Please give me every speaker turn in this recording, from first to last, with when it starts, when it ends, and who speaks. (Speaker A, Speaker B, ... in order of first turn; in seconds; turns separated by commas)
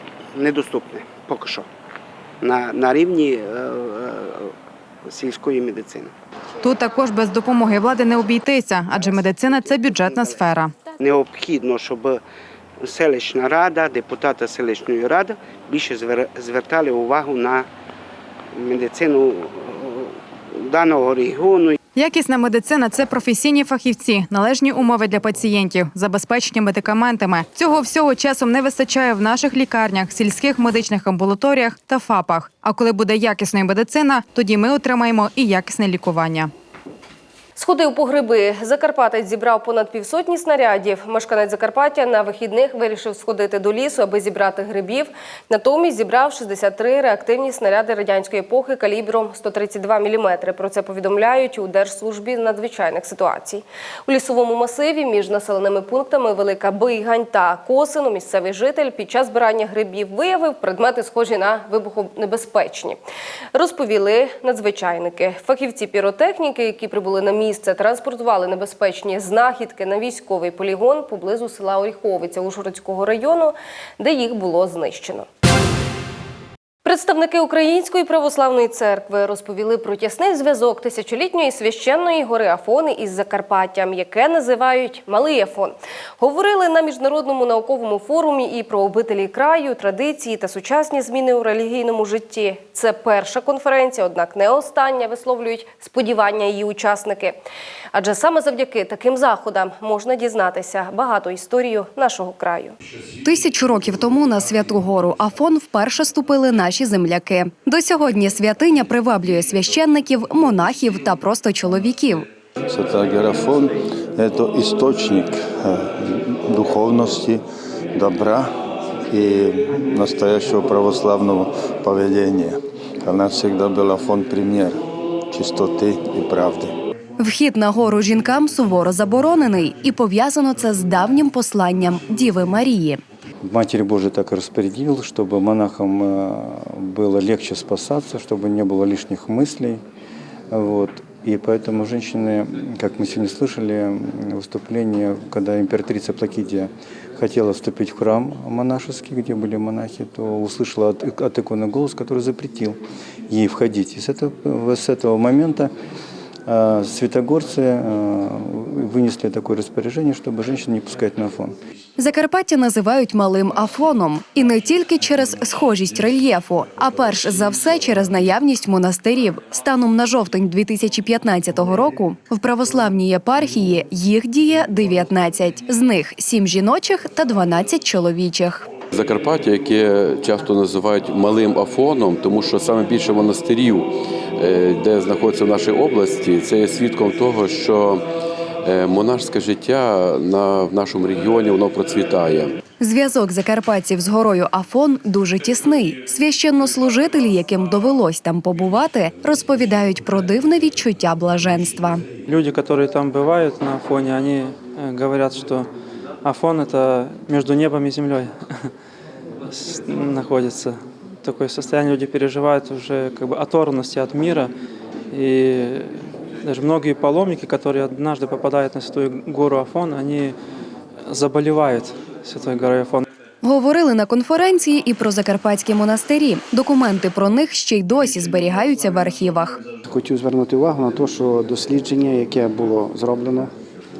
Speaker A: 0.9-1.4, Speaker B: 6.6-10.8, Speaker A: 14.2-14.6, Speaker A: 15.6-15.8, Speaker A: 16.4-16.8, Speaker A: 18.6-19.7, Speaker B: 21.9-36.5, Speaker C: 37.6-63.0, Speaker C: 63.5-75.3, Speaker C: 76.8-97.4, Speaker C: 97.9-102.8, Speaker D: 103.2-112.3, Speaker E: 112.6-117.4, Speaker E: 117.9-118.5, Speaker E: 119.1-126.7, Speaker D: 127.2-133.0, Speaker F: 133.4-139.8, Speaker F: 140.5-155.7, Speaker F: 156.4-161.6, Speaker D: 162.0-178.7, Speaker G: 178.9-188.0, Speaker G: 188.6-192.5, Speaker D: 192.8-202.1, Speaker H: 202.2-205.7, Speaker H: 206.2-208.3, Speaker H: 209.5-214.5, Speaker H: 215.1-220.3, Speaker H: 221.1-223.0, Speaker D: 223.4-229.6, Speaker I: 229.8-233.5